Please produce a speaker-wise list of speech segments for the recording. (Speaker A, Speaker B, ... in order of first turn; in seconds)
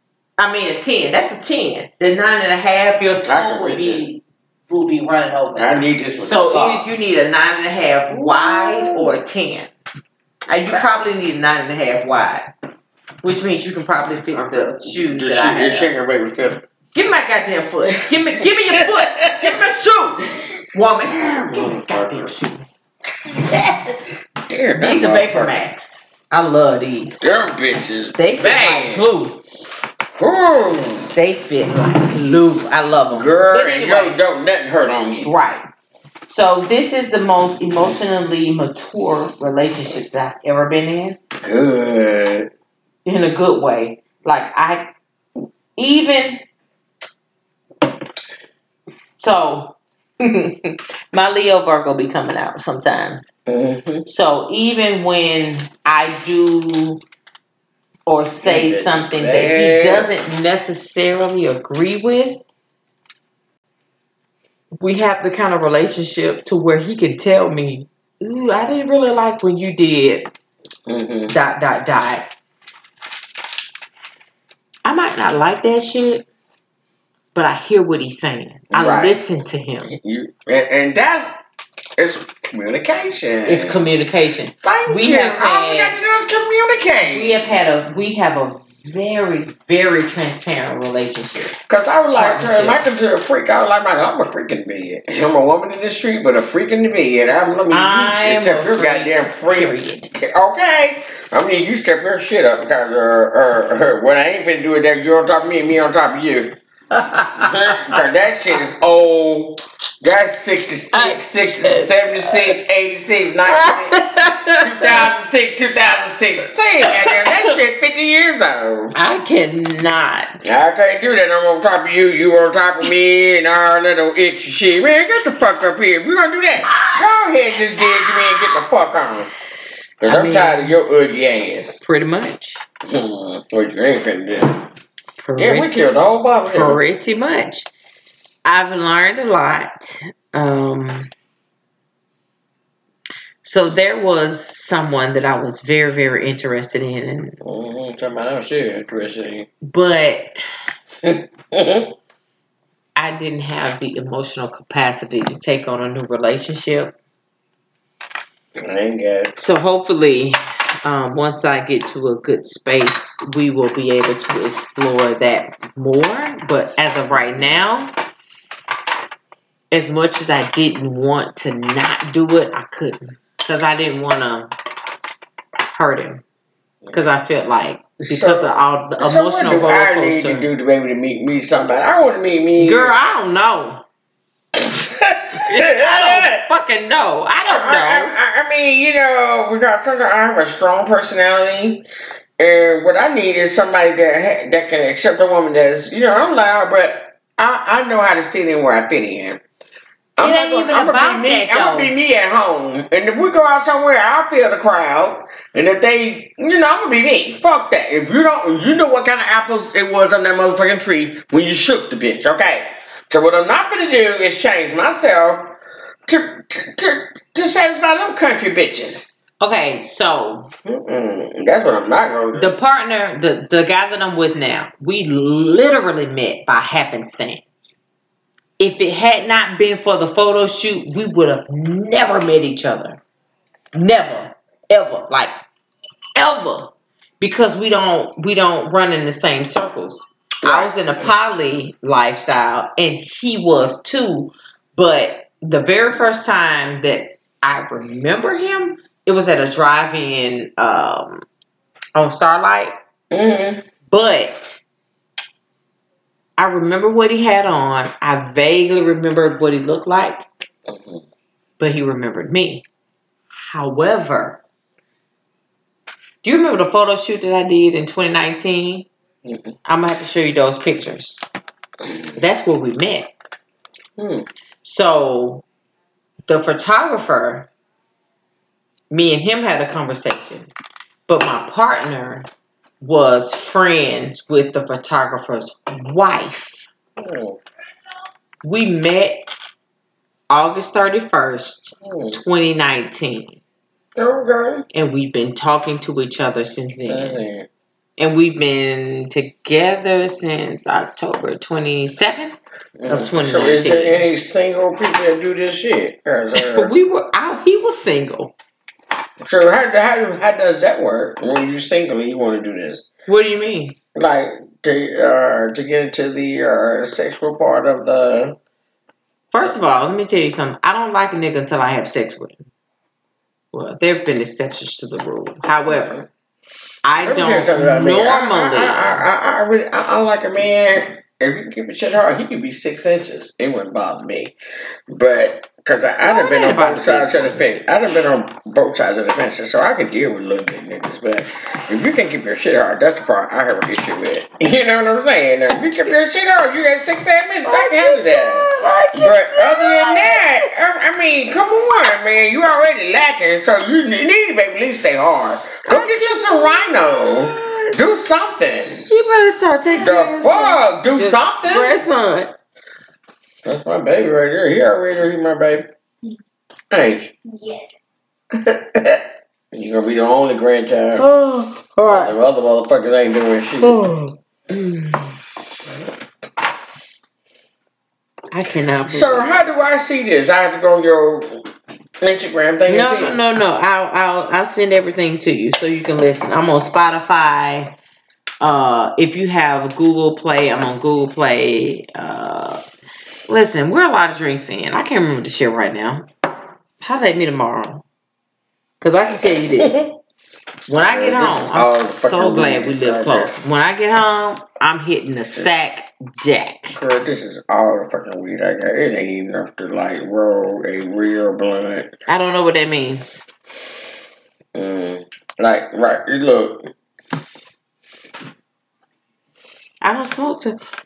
Speaker A: 0.4-9.7, 10.5-12.5, 13.2-15.9, 16.9-22.7, 24.8-27.3, 28.2-29.4, 31.1-34.2, 35.2-35.7, 36.3-41.2, 43.0-44.9, 45.8-46.4, 49.2-53.3, 54.1-57.0, 58.1-62.4, 64.8-70.3, 71.3-72.3, 74.8-76.3, 77.3-79.9, 83.5-86.0, 87.0-91.6, 92.2-92.8, 97.7-100.1, 106.9-108.0, 110.9-112.5, 113.5-115.1, 116.8-117.5, 118.9-120.5, 130.0-130.8, 131.8-132.6, 135.2-135.8, 136.5-137.7, 138.4-141.1, 143.4-147.4, 149.6-150.3, 153.0-157.0, 159.4-167.9, 169.7-174.5, 175.7-176.2, 176.9-180.5, 182.6-183.8, 185.3-188.2, 200.2-201.9, 219.4-220.5, 222.3-227.8, 228.6-233.0, 233.7-235.3, 236.2-251.2, 251.9-252.7, 253.9-254.6, 256.4-260.3, 261.6-262.6, 263.4-264.4, 266.2-268.9, 269.7-271.2, 272.2-273.1, 274.6-275.4, 276.3-277.5, 278.9-280.5, 281.1-282.3, 282.8-286.7, 288.4-289.3, 290.3-293.4, 294.7-297.2, 298.0-302.4, 302.9-304.1, 306.3-308.3, 313.1-313.8, 319.3-322.4, 323.5-326.0, 326.9-329.1, 336.0-337.5, 345.5-345.9, 347.4-350.5, 355.6-357.8, 358.9-362.4, 371.0-372.1, 373.6-375.2, 378.3-379.4, 382.7-387.8, 388.4-392.6, 393.3-396.1, 396.8-397.9, 398.8-399.9, 400.7-406.8, 412.1-413.3, 419.8-420.6
Speaker B: 3.3-4.0, 5.6-6.9, 8.1-9.2, 14.3-16.6, 18.0-19.6, 21.1-22.3, 23.3-25.6, 27.2-29.1, 30.2-31.1, 33.1-35.3, 41.4-42.5, 53.5-54.1, 58.4-60.1, 70.9-71.4, 78.7-79.2, 79.9-81.3, 82.0-83.8, 84.6-87.5, 91.7-106.6, 107.4-119.0, 120.4-129.3, 130.0-131.8, 132.8-134.6, 135.4-136.8, 147.4-149.5, 151.0-151.9, 158.6-159.3, 178.0-182.9, 184.6-186.4, 187.5-191.8, 192.4-199.4, 200.2-215.6, 216.1-219.1, 220.7-222.6, 240.4-241.1, 253.1-253.7, 260.7-261.0, 269.2-269.6, 274.0-274.3, 287.0-287.4, 291.8-292.2, 294.0-294.7, 296.8-297.5, 302.8-306.7, 309.2-312.8, 313.9-318.4, 325.7-326.1, 327.0-334.4, 334.9-358.9, 359.7-361.8, 363.4-365.7, 366.7-367.2, 368.3-371.1, 371.9-374.0, 378.9-381.5, 382.0-383.2, 399.6-399.9, 400.9-403.3, 406.8-412.0, 414.6-416.7